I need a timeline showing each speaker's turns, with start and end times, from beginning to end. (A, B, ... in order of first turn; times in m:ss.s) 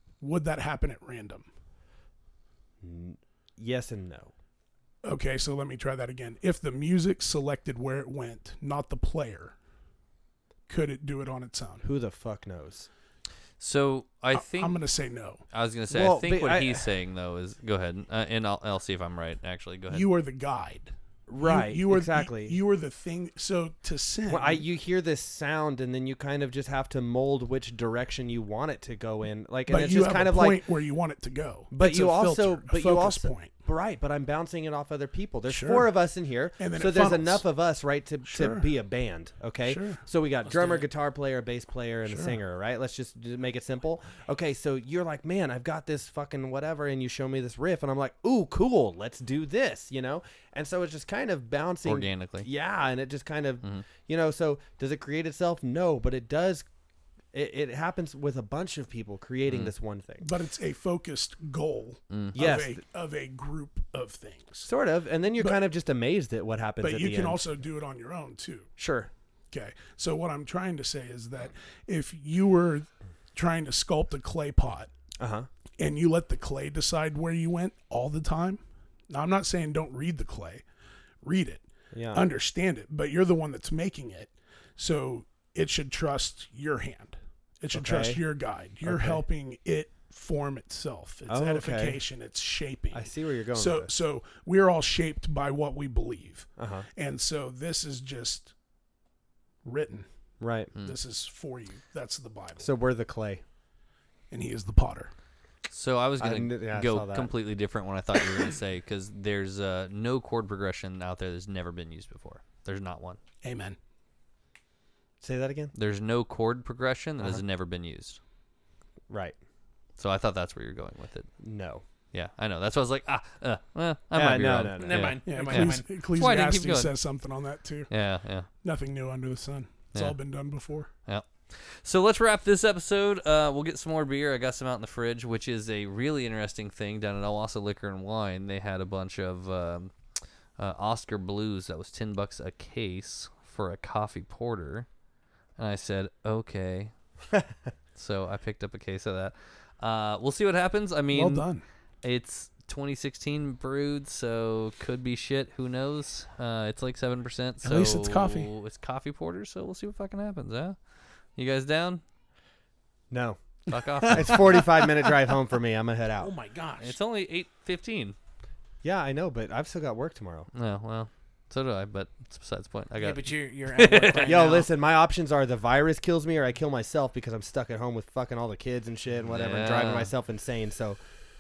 0:00.2-0:01.5 A
0:02.8-0:04.3 B
0:05.0-0:09.6 A
0:10.7-0:11.8 A
0:11.8-0:12.9 B
0:13.6-0:14.8 C
0:14.3-0:15.4 A
0:15.5-0:20.0 C
0:15.9-0:16.9 B
0:19.9-0:24.6 A
0:21.3-0:22.6 B
0:24.3-0:30.6 B
0:29.7-0:33.5 A
0:31.7-0:56.6 B
0:35.5-0:35.8 A
0:36.6-0:37.4 A
0:38.3-0:38.6 A
0:39.6-0:40.0 A
0:40.4-0:40.8 D
0:42.1-0:42.4 A
0:51.8-0:52.5 C
0:57.3-1:00.2 B
0:59.4-0:59.7 C
1:00.2-1:04.7 A
1:02.1-1:02.4 C
1:02.3-1:02.8 B
1:04.6-1:07.4 B
1:06.8-1:08.7 A
1:08.8-1:09.1 B
1:09.5-1:14.9 A
1:15.2-1:15.5 B
1:15.8-1:20.6 A
1:21.2-1:38.5 A
1:21.9-1:22.3 B
1:27.7-1:28.2 B
1:28.8-1:29.2 B
1:31.3-1:32.0 B
1:32.9-1:33.9 B
1:36.6-1:36.8 B
1:39.6-1:40.1 A
1:40.4-1:40.7 B
1:40.8-1:42.7 A
1:42.6-1:43.4 B
1:44.3-1:45.1 A
1:45.7-1:53.2 C
1:46.2-1:47.3 B
1:53.4-1:53.8 A
1:55.2-1:55.7 B
1:55.7-1:58.2 C
1:59.1-1:59.4 B
2:00.0-2:01.3 C
2:01.4-2:01.8 B
2:02.1-2:06.9 C
2:04.1-2:05.1 B
2:04.8-2:05.9 D
2:05.2-2:07.9 A
2:07.9-2:08.5 C
2:08.6-2:10.9 A
2:11.1-2:19.9 C
2:20.6-2:24.9 C
2:25.6-2:26.9 C
2:27.9-2:31.5 C
2:31.1-2:31.6 A
2:32.0-2:40.8 C
2:37.6-2:38.5 A
2:41.4-2:42.0 C
2:43.1-2:43.4 B
2:43.7-2:44.8 C
2:44.0-2:46.3 B
2:46.2-2:46.9 D
2:46.8-2:48.2 C
2:48.8-2:50.5 B
2:50.5-2:54.4 C
2:53.0-2:54.7 D
2:54.2-3:01.0 B
2:59.3-3:00.1 C